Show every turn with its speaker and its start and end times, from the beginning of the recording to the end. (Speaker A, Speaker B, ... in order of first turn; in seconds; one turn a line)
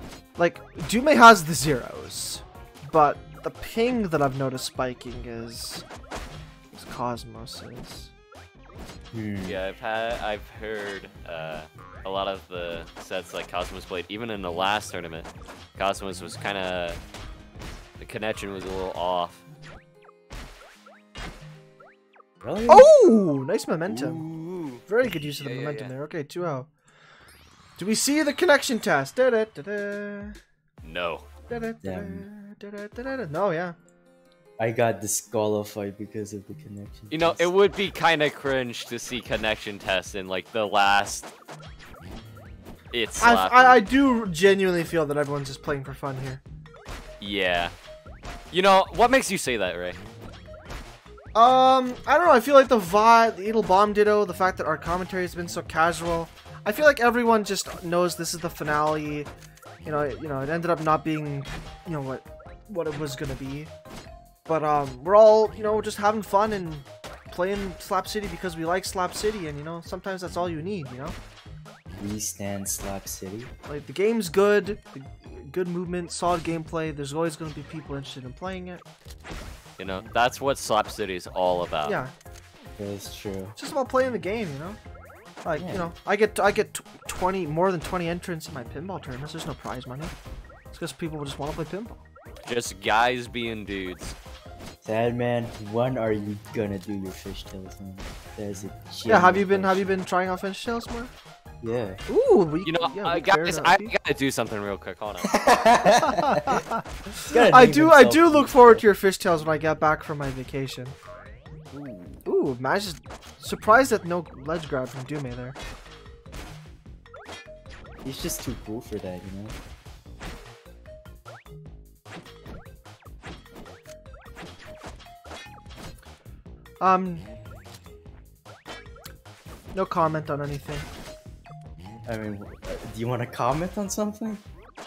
Speaker A: 0.4-5.8
Speaker A: 6.7-8.1
Speaker B: 9.1-9.6
Speaker C: 9.4-17.0
Speaker C: 18.0-19.4
Speaker B: 22.4-22.9
Speaker A: 22.7-24.2
Speaker C: 23.9-25.9
Speaker A: 24.9-26.7
Speaker A: 27.8-30.4
Speaker C: 30.8-31.3
Speaker A: 31.5-33.8
Speaker B: 31.8-32.2
Speaker B: 34.6-37.5
Speaker C: 37.1-41.3
Speaker C: 42.9-43.8
Speaker A: 43.2-46.4
Speaker C: 47.2-47.7
Speaker C: 48.5-50.0
Speaker A: 51.3-59.3
Speaker A: 59.9-63.7
Speaker A: 64.5-71.2
Speaker B: 72.0-73.5
Speaker A: 73.7-78.8
Speaker C: 79.8-82.0
Speaker A: 81.8-82.1
Speaker B: 82.8-83.5
Speaker A: 83.6-84.8
Speaker A: 85.4-90.1
Speaker B: 85.5-85.9
Speaker A: 90.7-92.0
Speaker C: 92.5-94.2
Speaker B: 94.8-99.9
Speaker A: 99.1-101.1
Speaker B: 101.6-102.0
Speaker A: 102.1-103.9
Speaker C: 102.7-105.3
Speaker B: 105.3-106.6
Speaker A: 106.0-111.0
Speaker B: 107.3-108.8
Speaker C: 111.7-112.2
Speaker A: 112.2-115.6
Speaker B: 118.0-119.6
Speaker A: 126.8-127.3
Speaker A: 129.7-130.9
Speaker B: 132.1-134.4